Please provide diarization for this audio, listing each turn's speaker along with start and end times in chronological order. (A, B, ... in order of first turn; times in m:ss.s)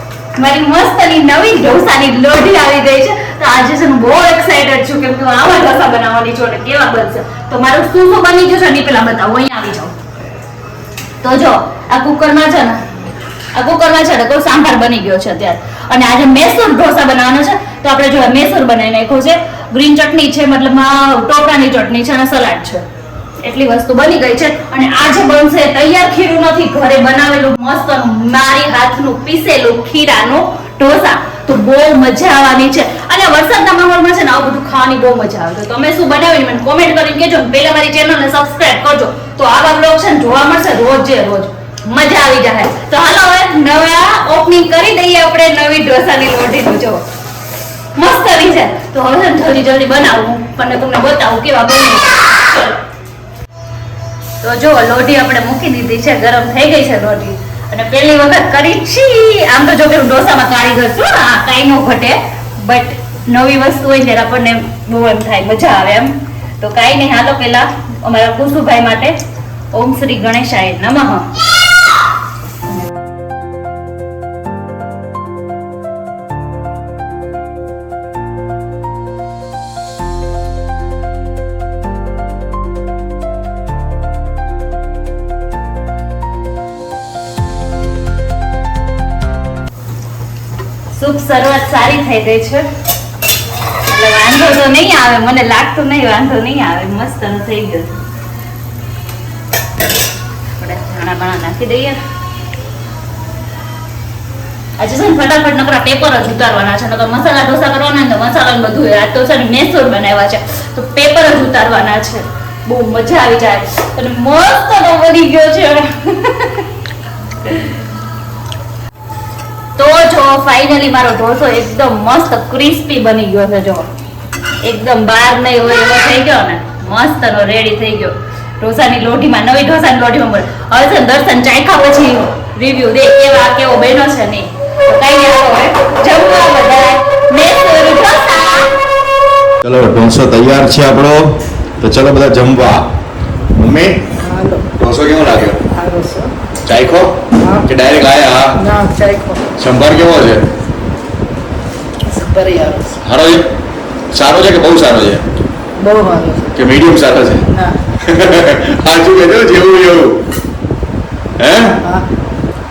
0:00.4-0:10.0 A
0:11.2-0:12.8 A
0:13.5-0:22.8 A
0:23.4-0:47.0 A
0:47.9-0:52.8 A
0:54.4-1:09.2 A
1:09.7-1:11.3 A
1:30.9-1:32.7 A
1:33.9-1:38.0 A
1:40.6-1:42.0 A
1:44.8-1:56.7 A
1:57.4-1:57.7 A
1:59.8-2:03.9 A
2:04.6-2:18.8 A
2:19.6-2:21.3 B
2:21.8-2:22.9 B
2:23.6-2:24.0 B
2:24.2-2:24.7 C
2:24.8-2:25.6 B
2:25.7-2:26.3 C
2:26.6-2:28.6 B
2:27.4-2:27.7 C
2:28.6-2:29.4 C
2:29.6-2:30.4 B
2:32.1-2:32.8 C
2:33.0-2:33.5 B
2:34.1-2:35.2 B
2:35.8-2:36.5 C
2:36.6-2:37.4 B
2:38.0-2:40.2 B
2:41.4-2:41.8 B